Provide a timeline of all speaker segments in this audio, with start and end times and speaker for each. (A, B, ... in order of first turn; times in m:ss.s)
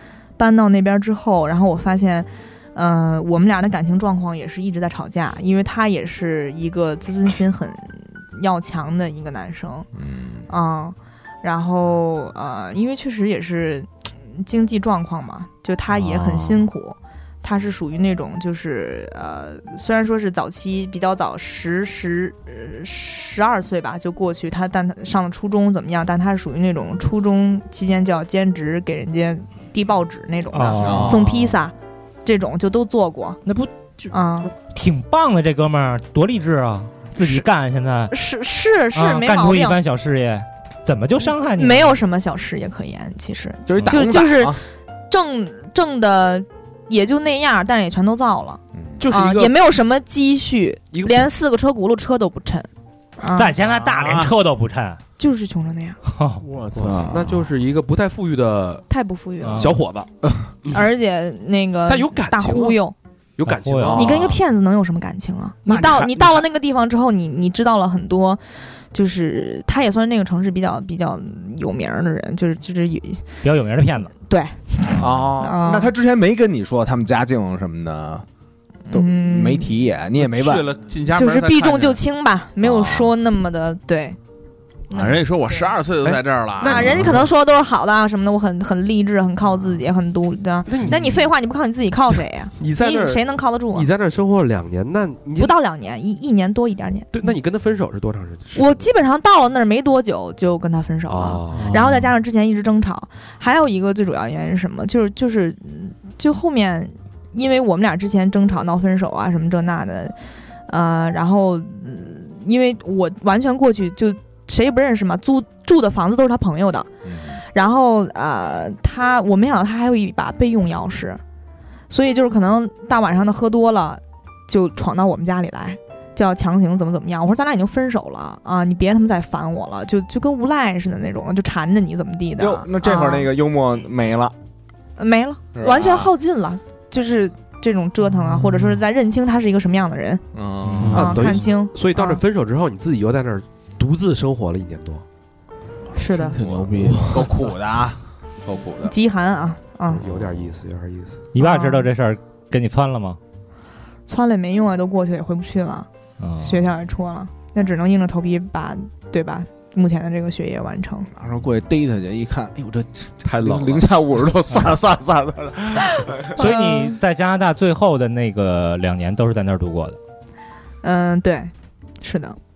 0:00.4-0:09.9 A
0:09.9-0:10.4 B
0:10.5-0:31.7 A
0:15.9-0:16.6 C
0:30.5-0:31.6 D
0:30.8-0:31.2 B
0:32.2-0:33.4 A
0:33.4-0:38.1 D
0:34.1-0:34.5 A
0:37.2-0:37.4 A
0:38.1-0:39.8 A
0:38.9-0:42.0 D
0:41.5-0:52.7 A
0:43.7-0:44.6 B
0:48.7-0:49.0 B
0:49.0-0:49.5 E
0:50.9-0:51.3 E
0:53.2-0:53.5 A
0:53.3-0:55.0 D
0:53.8-0:54.3 C
0:55.2-0:56.0 A
0:56.1-0:56.4 D
0:56.4-0:57.4 C
0:56.7-0:58.8 E
0:58.9-0:59.8 A
0:59.4-0:59.8 D
0:59.5-1:00.1 E
1:00.7-1:02.9 A
1:01.9-1:02.8 E
1:03.4-1:04.4 E
1:03.4-1:04.2 D
1:03.8-1:04.3 B
1:03.9-1:13.4 A
1:05.6-1:05.9 E
1:05.7-1:06.4 C
1:13.4-1:14.1 D
1:14.3-1:15.9 A
1:15.0-1:18.2 B
1:18.9-1:19.7 A
1:18.9-1:20.7 B
1:20.2-1:22.0 C
1:21.1-1:24.2 A
1:22.6-1:23.1 B
1:24.9-1:25.7 A
1:24.9-1:27.1 C
1:26.0-1:27.3 E
1:26.6-1:33.9 A
1:30.7-1:31.3 E
1:32.6-1:35.5 E
1:35.4-1:37.1 A
1:37.1-1:38.9 E
1:38.5-1:50.2 A
1:41.1-1:41.8 E
1:41.5-1:42.0 C
1:50.7-1:56.9 A
1:57.0-1:57.4 B
1:57.5-2:01.2 A
2:01.9-2:13.3 A
2:12.4-2:14.3 B
2:15.0-2:20.2 A
2:15.5-2:16.1 B
2:20.3-2:21.2 B
2:20.7-2:25.0 E
2:20.7-2:21.2 C
2:20.9-2:22.2 A
2:25.9-2:26.4 A
2:26.2-2:27.3 C
2:26.5-2:27.3 E
2:26.6-2:28.9 B
2:28.8-2:30.0 A
2:29.9-2:31.2 E
2:30.1-2:30.4 B
2:31.3-2:33.2 D
2:31.4-2:31.9 A
2:34.1-2:35.9 A
2:36.2-2:36.7 D
2:36.4-2:41.1 A
2:41.2-2:46.3 B
2:43.3-2:43.6 E
2:43.3-2:43.8 C
2:46.0-2:47.0 A
2:46.4-2:50.0 D
2:50.8-2:52.4 A